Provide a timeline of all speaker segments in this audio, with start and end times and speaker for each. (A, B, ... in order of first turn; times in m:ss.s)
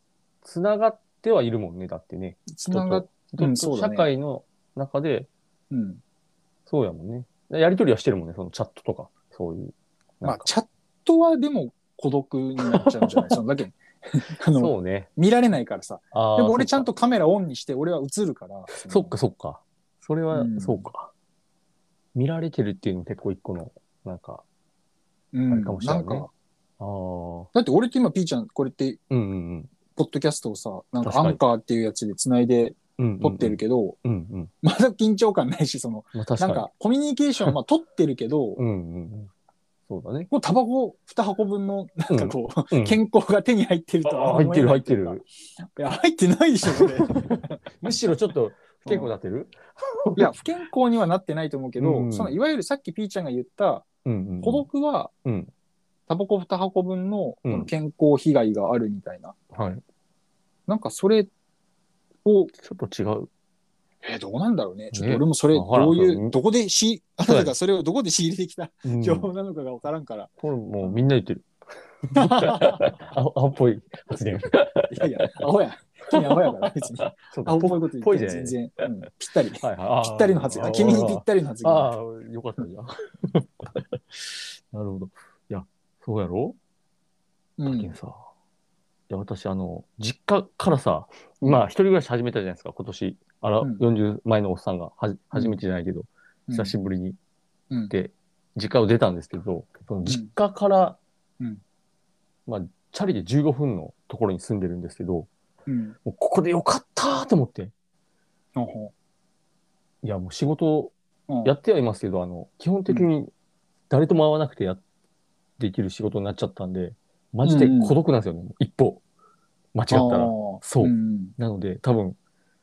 0:00.4-0:05.3 A
0:02.5-0:04.1 B
0:05.7-0:06.0 B
0:06.7-0:10.5 A
0:10.2-0:19.2 B
0:12.6-0:13.4 A
0:14.5-0:15.1 A
0:16.1-0:16.9 A
0:18.7-0:21.1 A
0:20.3-0:20.9 B
0:22.2-0:24.4 A
0:25.3-0:26.3 B
0:25.5-0:26.3 A
0:26.8-0:27.5 A
0:27.5-0:29.0 B
0:29.1-0:29.7 A
0:30.0-0:34.0 B
0:31.0-0:31.4 A
0:33.0-0:34.5 A
0:34.6-0:38.6 B
0:36.2-0:36.7 A
0:38.6-0:39.3 A
0:39.9-0:40.3 A
0:40.3-0:47.6 B
0:42.1-0:43.0 A
0:44.0-0:45.2 A
0:46.7-0:50.4 A
0:48.9-0:49.1 B
0:50.2-0:53.9 B
0:51.8-0:52.4 A
0:54.0-0:54.7 A
0:54.4-0:55.1 B
0:55.2-0:55.5 A
0:56.1-0:59.4 B
0:57.4-0:57.7 A
0:59.5-0:59.8 A
1:00.7-1:01.3 B
1:02.2-1:02.5 B
1:02.5-1:03.3 A
1:04.0-1:10.3 B
1:04.9-1:06.4 A
1:07.2-1:07.5 A
1:08.8-1:09.3 A
1:10.4-1:11.5 A
1:12.0-1:15.4 A
1:12.2-1:12.8 B
1:14.9-1:21.9 B
1:16.1-1:18.6 A
1:19.6-1:26.6 A
1:27.6-1:27.9 B
1:27.7-1:28.2 A
1:29.1-1:37.2 A
1:35.3-1:35.6 B
1:36.5-1:36.8 B
1:37.9-1:41.0 A
1:42.5-1:45.3 A
1:45.7-1:46.0 B
1:46.0-1:47.7 A
1:48.6-1:48.9 B
1:50.0-1:53.3 A
1:51.3-1:51.5 B
1:53.9-1:54.8 A
1:55.6-1:59.0 A
1:57.4-1:58.0 B
1:59.8-2:02.2 A
1:59.9-2:01.3 B